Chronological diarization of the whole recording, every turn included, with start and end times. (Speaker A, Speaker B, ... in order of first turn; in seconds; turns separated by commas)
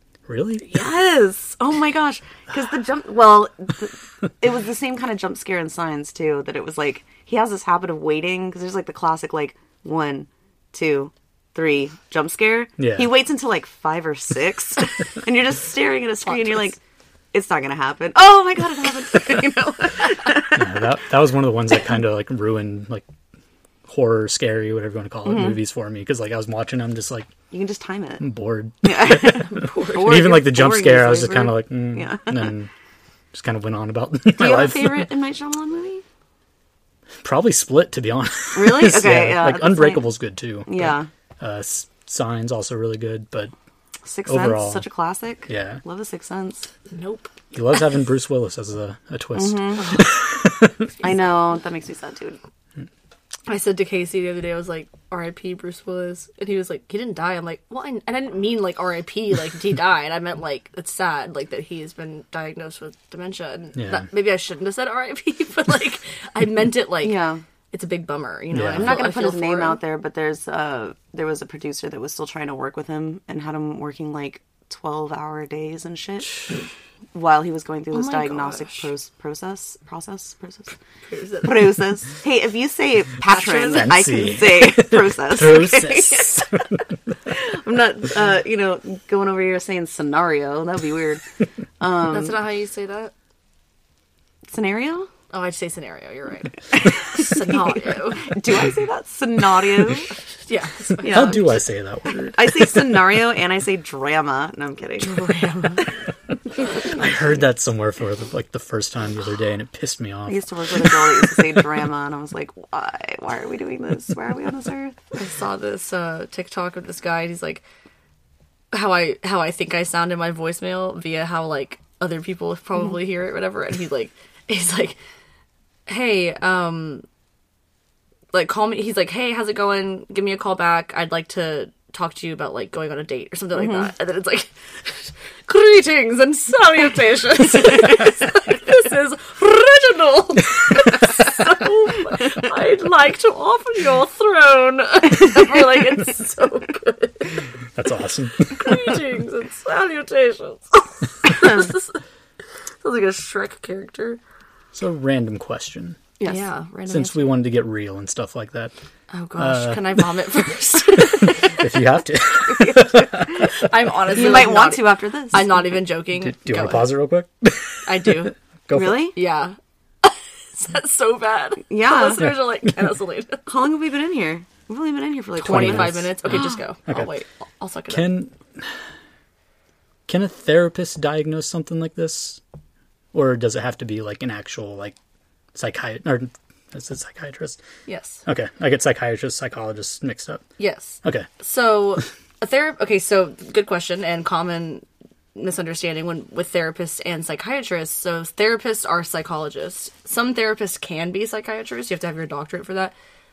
Speaker A: 0.3-0.7, Speaker B: 0.6-16.8, Speaker A: 12.8-13.1, Speaker C: 16.2-16.7, Speaker B: 17.3-20.9, Speaker A: 20.5-23.0, Speaker A: 23.9-27.3, Speaker B: 25.2-25.6, Speaker B: 27.5-28.2, Speaker A: 28.2-32.7, Speaker B: 28.8-32.5, Speaker C: 29.3-30.3, Speaker A: 33.3-35.1, Speaker B: 34.4-36.0, Speaker A: 37.2-43.5, Speaker B: 38.5-40.1, Speaker B: 40.6-41.1, Speaker B: 44.0-46.7, Speaker A: 44.2-44.8, Speaker A: 45.5-45.8, Speaker C: 46.9-47.3, Speaker A: 47.5-50.9, Speaker B: 49.3-50.0, Speaker C: 49.8-50.1, Speaker C: 51.0-51.3, Speaker B: 51.0-52.4, Speaker C: 53.5-67.2, Speaker A: 63.8-64.1, Speaker B: 67.0-67.4, Speaker C: 67.7-69.8, Speaker A: 68.5-68.9, Speaker B: 68.7-76.4, Speaker B: 77.1-80.7, Speaker C: 77.9-78.9, Speaker C: 81.1-81.8, Speaker B: 81.4-91.2, Speaker C: 83.2-84.0, Speaker A: 83.7-86.8, Speaker B: 91.8-92.3, Speaker C: 92.1-93.1, Speaker B: 94.5-95.1, Speaker C: 95.3-98.3, Speaker B: 98.2-100.1, Speaker C: 100.5-101.4, Speaker B: 101.0-101.5, Speaker A: 101.0-102.9, Speaker B: 102.2-105.2, Speaker C: 105.0-105.9, Speaker B: 106.7-107.3, Speaker A: 106.8-111.1, Speaker B: 110.3-115.0, Speaker C: 115.1-117.6, Speaker C: 118.7-125.0, Speaker C: 125.9-127.0, Speaker C: 128.3-147.5, Speaker B: 133.5-133.9, Speaker A: 147.7-148.9, Speaker C: 148.5-152.0, Speaker C: 152.8-154.2, Speaker A: 154.7-156.0, Speaker C: 156.2-157.2, Speaker A: 156.9-158.7, Speaker C: 159.1-161.6, Speaker A: 159.3-160.1, Speaker A: 161.2-163.5, Speaker B: 162.4-163.5, Speaker C: 163.4-166.9, Speaker B: 164.1-165.5, Speaker A: 166.2-169.1, Speaker C: 167.8-168.3, Speaker B: 168.7-169.1, Speaker C: 169.1-173.5, Speaker B: 171.7-172.3, Speaker A: 172.2-172.7, Speaker B: 173.4-176.1, Speaker A: 175.4-177.1, Speaker C: 175.4-178.1, Speaker A: 177.9-178.8, Speaker A: 180.1-182.4, Speaker A: 183.1-184.9, Speaker A: 185.5-187.6, Speaker C: 187.8-188.2, Speaker A: 188.2-190.5, Speaker C: 190.6-202.9, Speaker A: 191.0-191.3